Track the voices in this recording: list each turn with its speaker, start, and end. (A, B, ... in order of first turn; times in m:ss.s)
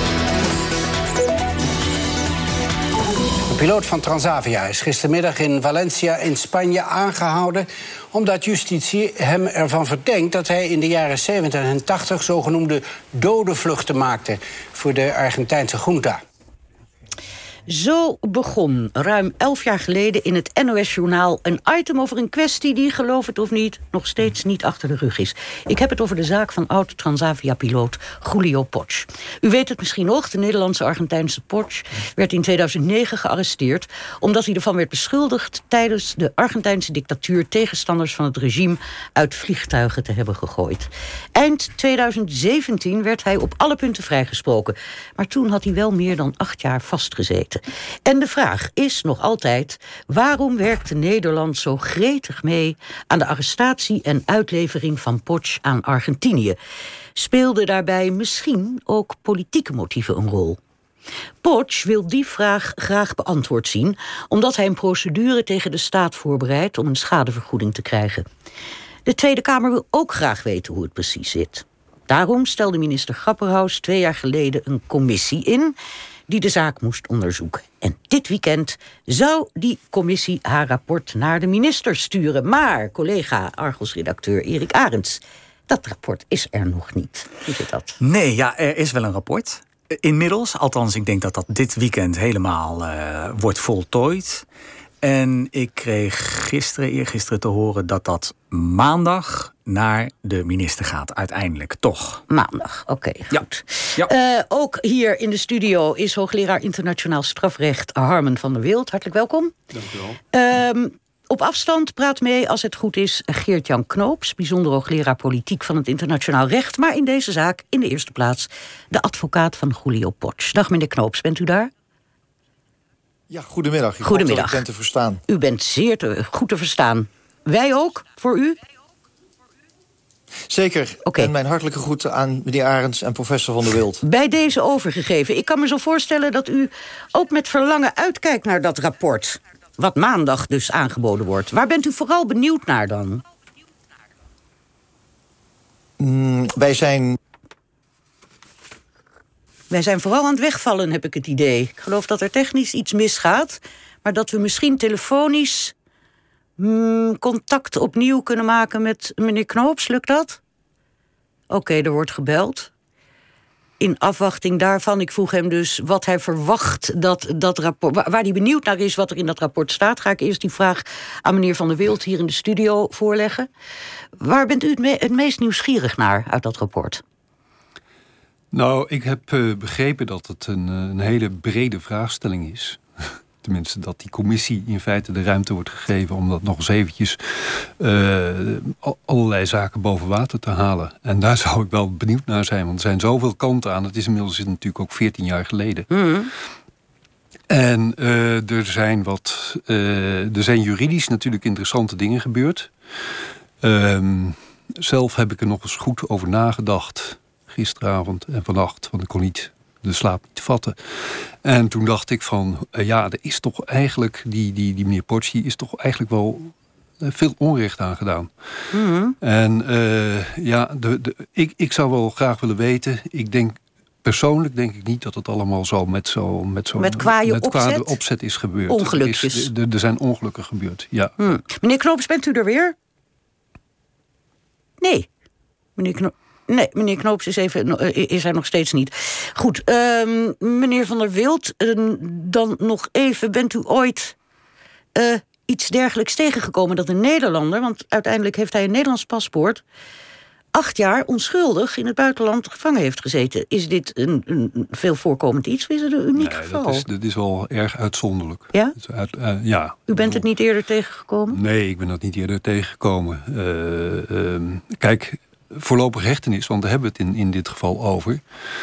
0:03.5-0:16.2 A
0:17.7-0:56.6 B
0:57.2-1:00.6 B
1:01.4-1:08.2 B
1:09.0-1:15.8 B
1:16.3-1:28.0 B
1:28.0-1:34.4 C
1:35.0-1:42.2 C
1:42.3-1:49.5 B
1:49.7-1:50.2 D
1:50.3-2:01.7 B
2:03.3-2:05.2 E
2:04.0-2:04.6 B
2:05.3-2:08.6 B
2:10.5-2:14.0 E
2:11.0-2:11.3 B
2:14.0-2:23.2 B
2:26.0-2:27.2 E
2:29.7-2:35.7 B
2:36.6-2:40.4 B
2:41.5-2:42.7 B
2:43.8-2:53.5 B
2:54.2-2:57.0 B
2:58.5-3:02.8 D
3:03.4-3:15.9 D
3:15.9-3:16.3 B
3:17.5-3:22.7 D
3:23.6-3:38.3 D
3:38.7-3:39.2 B
3:39.2-3:51.3 D
3:46.8-3:48.0 B
3:48.7-3:49.5 B
3:51.2-3:52.7 B
3:54.8-3:55.1 B
3:55.8-4:04.2 B
4:05.0-4:09.6 B
4:10.5-4:16.9 B
4:16.2-4:20.2 D
4:19.9-4:21.4 B
4:21.3-4:28.2 D